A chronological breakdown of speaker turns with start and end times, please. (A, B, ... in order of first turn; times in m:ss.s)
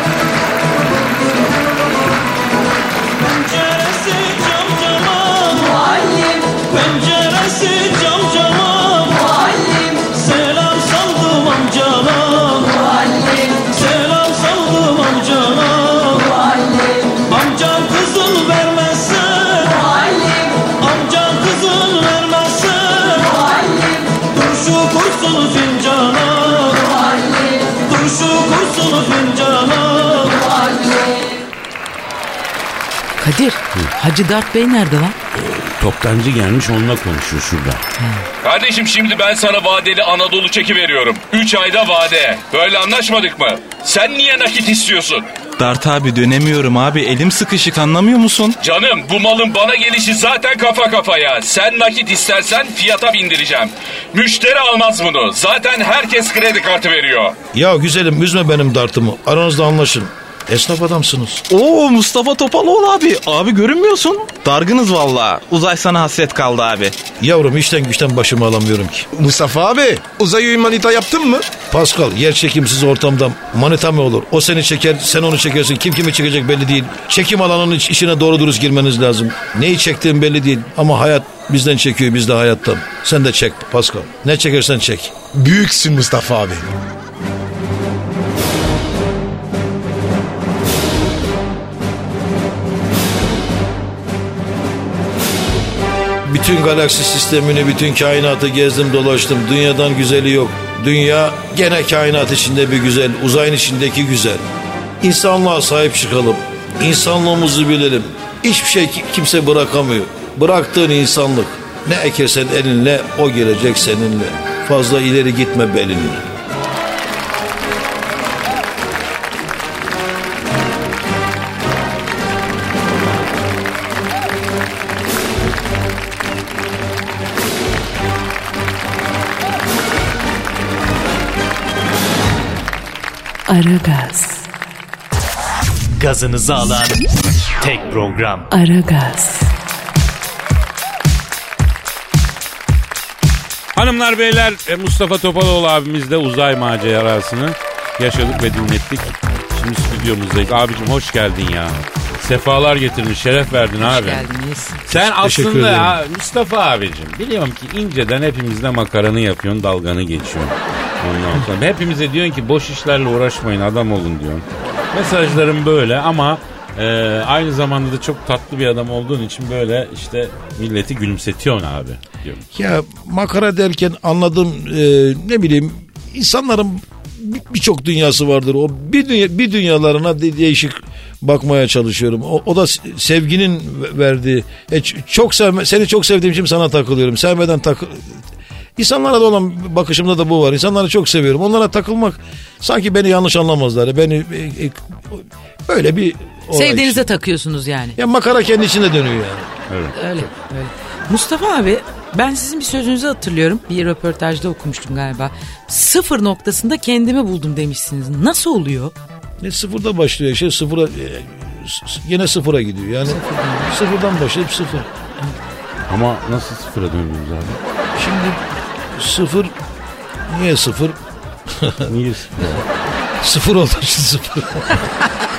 0:03.2-0:30.8 A
0:33.2-0:35.2 B
0:35.3-0:37.8 C
0:38.0-0:38.2 B
0:38.4-0:45.3 D
0:45.6-0:48.6 E
0:48.6-0:57.4 D
0:57.5-1:01.4 F
1:01.5-1:07.0 E
1:07.2-1:09.1 F
1:09.1-1:11.5 G
1:11.7-1:25.1 F
1:25.3-1:26.7 G
1:36.2-1:44.4 F
1:45.0-1:56.2 F
2:13.5-2:14.5 H
2:16.0-2:17.0 I
2:17.6-2:18.5 I
2:18.5-2:19.5 H
2:23.7-2:34.3 C
2:33.8-2:34.8 B
2:34.9-2:52.4 C
2:35.0-2:36.0 F
2:52.5-3:08.2 F
3:08.8-3:17.1 F
3:16.5-3:18.0 B
3:18.0-3:19.5 F
3:19.7-3:19.9 C
3:19.9-3:28.9 B
3:29.4-3:34.9 F
3:33.1-3:33.7 B
3:35.9-3:37.6 C
3:38.0-3:38.4 F
3:38.9-3:39.5 F
3:40.3-3:41.0 F
3:41.5-3:41.9 F
3:41.9-3:42.6 C
3:43.2-3:44.7 F